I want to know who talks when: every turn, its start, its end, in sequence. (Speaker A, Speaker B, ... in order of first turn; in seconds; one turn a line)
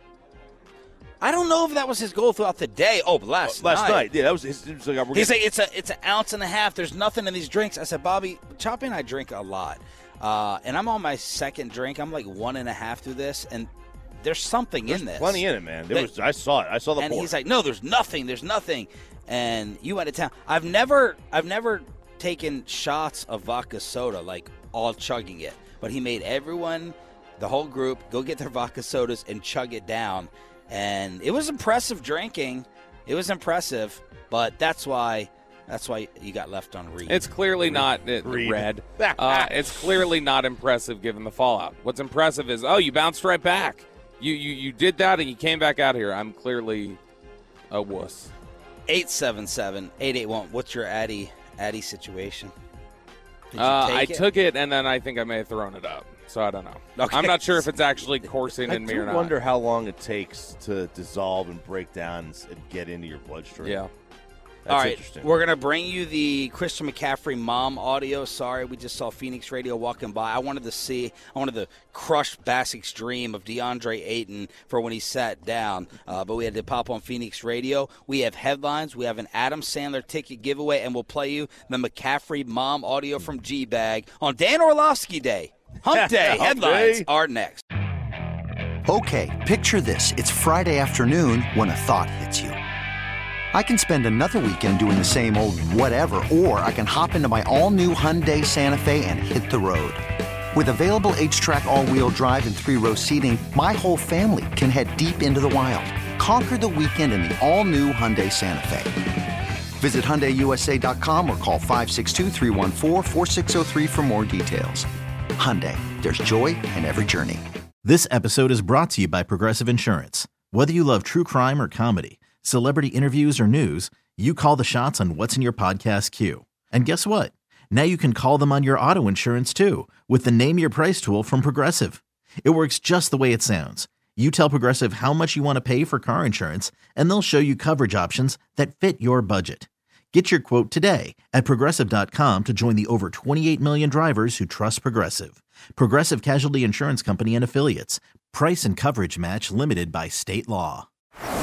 Speaker A: 1.2-4.1
Speaker B: 3.5-5.3
Speaker A: 5.1-16.1
Speaker B: 14.9-17.3
Speaker A: 17.0-37.3
Speaker C: 37.1-47.0
Speaker B: 37.6-40.0
Speaker C: 47.7-48.3
Speaker A: 48.9-52.5
Speaker A: 53.5-54.3
Speaker C: 53.5-59.4
Speaker A: 57.0-57.7
Speaker B: 58.6-63.8
Speaker C: 63.6-63.9
Speaker B: 64.7-65.3
Speaker A: 64.7-87.6
Speaker B: 85.9-87.1
Speaker D: 88.9-92.6
Speaker D: 93.5-109.0
Speaker D: 109.8-117.4
Speaker E: 117.8-150.9